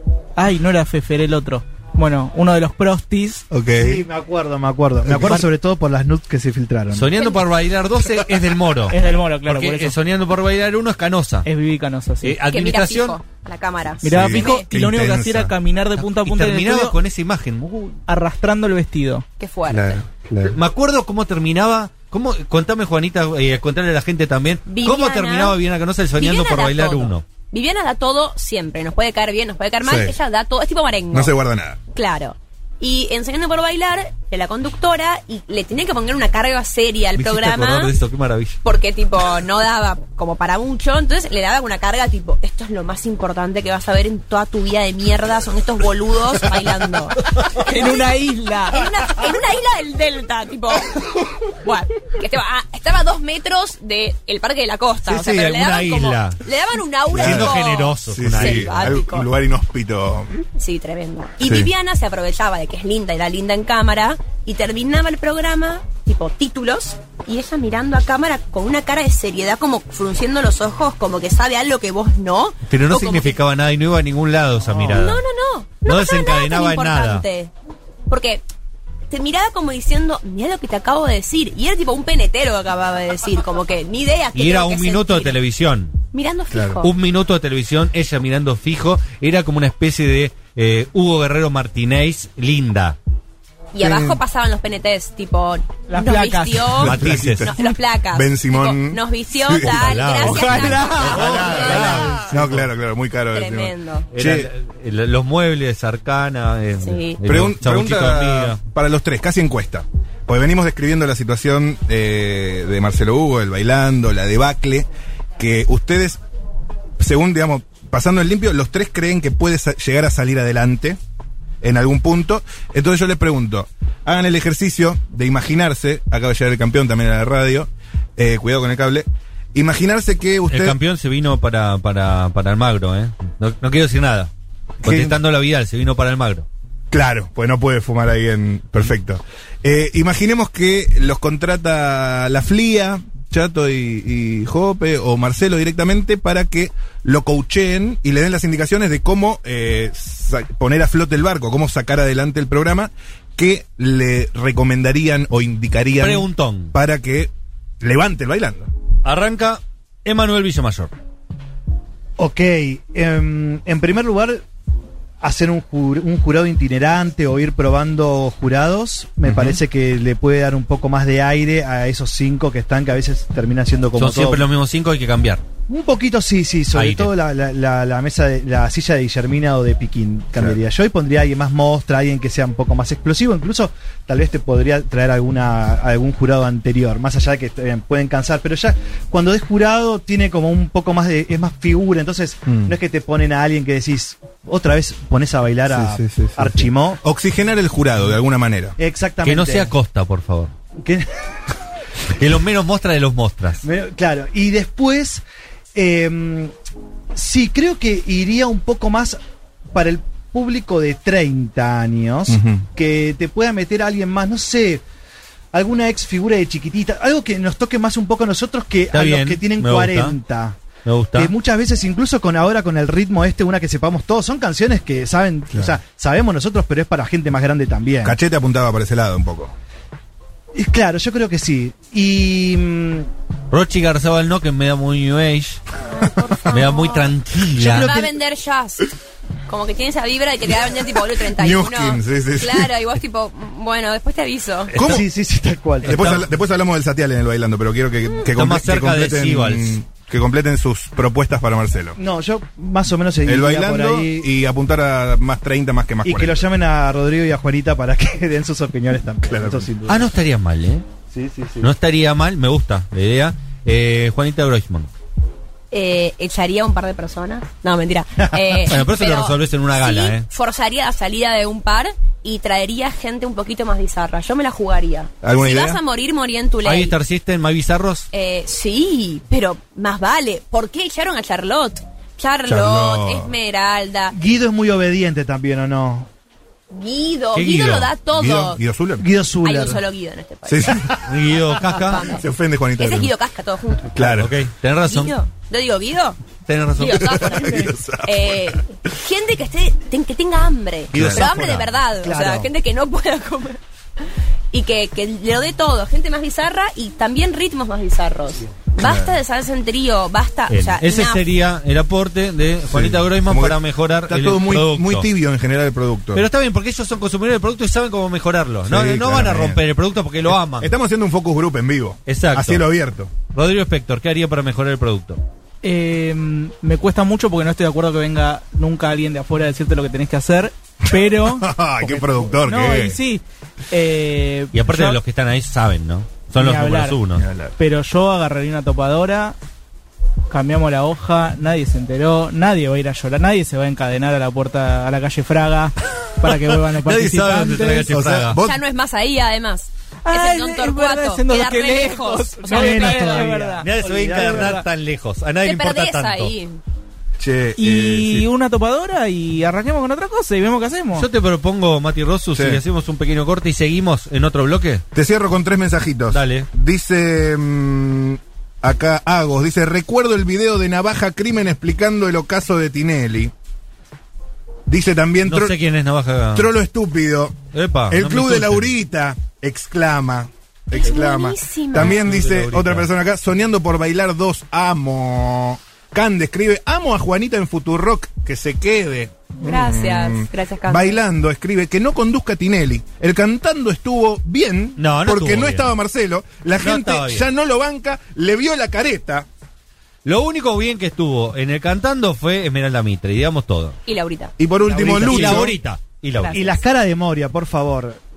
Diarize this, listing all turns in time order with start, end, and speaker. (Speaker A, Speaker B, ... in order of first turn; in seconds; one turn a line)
Speaker A: 0.4-3.5
Speaker B: 3.5-4.0
Speaker C: 3.8-7.1
Speaker B: 5.0-5.5
Speaker D: 6.9-11.5
Speaker A: 8.9-9.9
Speaker A: 11.4-12.4
Speaker D: 12.2-13.2
Speaker E: 12.5-14.7
Speaker A: 14.0-17.0
Speaker B: 14.0-15.5
Speaker D: 16.0-18.0
Speaker A: 18.1-19.2
Speaker E: 19.4-20.0
Speaker B: 19.7-20.6
Speaker D: 20.4-27.2
Speaker E: 24.7-25.6
Speaker E: 26.2-31.4
Speaker B: 29.8-30.1
Speaker B: 31.1-31.8
Speaker E: 31.9-37.9
Speaker D: 37.2-38.6
Speaker E: 38.6-59.3
Speaker A: 47.6-48.8
Speaker D: 55.0-56.4
Speaker D: 57.1-59.0
Speaker B: 57.1-60.4
Speaker E: 60.6-73.4
Speaker B: 61.4-61.7
Speaker D: 72.7-75.2
Speaker E: 74.9-77.5
Speaker D: 75.8-77.3
Speaker E: 78.1-78.4
Speaker E: 79.1-85.4
Speaker D: 84.3-86.0
Speaker E: 86.1-86.9
Speaker B: 86.5-86.8
Speaker D: 86.8-93.0
Speaker E: 93.7-102.3
Speaker B: 93.8-94.2
Speaker A: 95.9-96.8
Speaker D: 96.8-97.5
Speaker B: 96.8-100.1
Speaker D: 99.6-102.7
Speaker A: 100.2-102.1
Speaker B: 101.0-104.5
Speaker E: 103.3-104.1
Speaker D: 104.1-108.6
Speaker E: 106.8-107.2
Speaker B: 107.3-114.9
Speaker B: 115.4-116.2
Speaker B: 117.0-121.0
Speaker B: 121.6-130.8
Speaker D: 130.5-134.3
Speaker B: 134.8-135.2
Speaker D: 134.8-136.5
Speaker B: 136.9-158.7
Speaker D: 156.0-156.7
Speaker D: 159.0-160.9
Speaker C: 162.2-164.4
Speaker C: 165.2-174.5
Speaker D: 169.2-169.6
Speaker D: 174.0-175.4
Speaker C: 175.7-197.0
Speaker D: 176.7-177.1
Speaker B: 192.5-192.7
Speaker B: 195.7-198.8
Speaker C: 198.8-199.7
Speaker D: 199.2-200.5
Speaker C: 200.8-201.2
Speaker D: 202.1-203.6
Speaker C: 203.6-205.2
Speaker C: 205.8-206.5
Speaker C: 207.1-209.2
Speaker C: 209.7-214.8
Speaker B: 212.3-212.6
Speaker C: 215.5-220.6
Speaker D: 218.9-220.2
Speaker D: 220.8-221.3
Speaker C: 221.2-228.2
Speaker B: 228.0-229.5
Speaker C: 230.5-233.1
Speaker D: 233.5-235.6
Speaker E: 235.9-237.1
Speaker D: 236.5-237.9
Speaker C: 237.6-238.1
Speaker E: 237.7-238.9
Speaker E: 239.5-244.7
Speaker B: 241.3-242.7
Speaker D: 244.7-245.0
Speaker B: 244.8-245.0
Speaker C: 244.8-246.2
Speaker D: 245.8-246.3
Speaker B: 245.8-252.0
Speaker D: 248.3-249.8
Speaker C: 252.0-254.3
Speaker B: 253.3-256.4
Speaker C: 256.0-260.0
Speaker B: 259.3-259.9
Speaker D: 259.9-260.8
Speaker C: 261.1-261.7
Speaker D: 261.6-264.9
Speaker E: 265.7-276.9
Speaker D: 268.6-270.3
Speaker B: 275.2-275.8
Speaker D: 276.6-278.1
Speaker E: 278.1-284.1
Speaker B: 282.5-283.3
Speaker C: 284.1-286.1
Speaker E: 286.7-288.6
Speaker D: 287.3-287.9
Speaker B: 288.1-289.1
Speaker C: 289.0-289.8
Speaker E: 289.4-290.8
Speaker B: 290.5-291.1
Speaker D: 291.1-292.2
Speaker E: 291.8-292.3
Speaker B: 292.1-293.1
Speaker E: 292.8-293.9
Speaker B: 293.9-294.3
Speaker D: 294.0-295.1
Speaker E: 294.9-296.2
Speaker D: 296.5-297.4
Speaker E: 296.8-303.6
Speaker B: 296.9-298.6
Speaker B: 300.9-301.7
Speaker D: 300.9-301.7
Speaker C: 302.0-302.5
Speaker E: 304.5-311.2
Speaker B: 308.8-309.1
Speaker D: 310.5-315.1
Speaker B: 312.7-316.2
Speaker D: 316.1-320.7
Speaker B: 318.7-319.6
Speaker B: 320.3-323.1
Speaker D: 322.1-322.6
Speaker D: 323.3-325.2
Speaker A: 325.6-335.0
Speaker B: 331.0-333.0
Speaker D: 334.5-337.2
Speaker A: 336.4-337.0
Speaker B: 337.2-337.5
Speaker A: 337.6-339.4
Speaker A: 340.3-347.9
Speaker D: 346.3-348.4
Speaker B: 347.9-348.6
Speaker E: 348.4-353.3
Speaker A: 350.1-354.6
Speaker C: 352.5-354.6
Speaker D: 353.6-356.3
Speaker E: 355.4-356.6
Speaker B: 357.2-358.3
Speaker A: 357.6-361.1
Speaker D: 360.9-364.8
Speaker B: 362.4-362.6
Speaker B: 364.9-373.3
Speaker D: 366.1-366.5
Speaker B: 374.7-375.6
Speaker D: 375.2-376.5
Speaker B: 376.4-377.4
Speaker D: 377.5-378.7
Speaker B: 377.9-399.3
Speaker E: 380.7-382.0
Speaker D: 381.8-382.9
Speaker E: 389.4-391.0
Speaker D: 394.8-395.7
Speaker D: 396.6-397.3
Speaker D: 400.1-403.8
Speaker E: 403.9-404.3
Speaker B: 404.4-405.6
Speaker C: 404.7-405.5
Speaker D: 404.7-406.4
Speaker E: 406.2-406.6
Speaker C: 406.3-408.0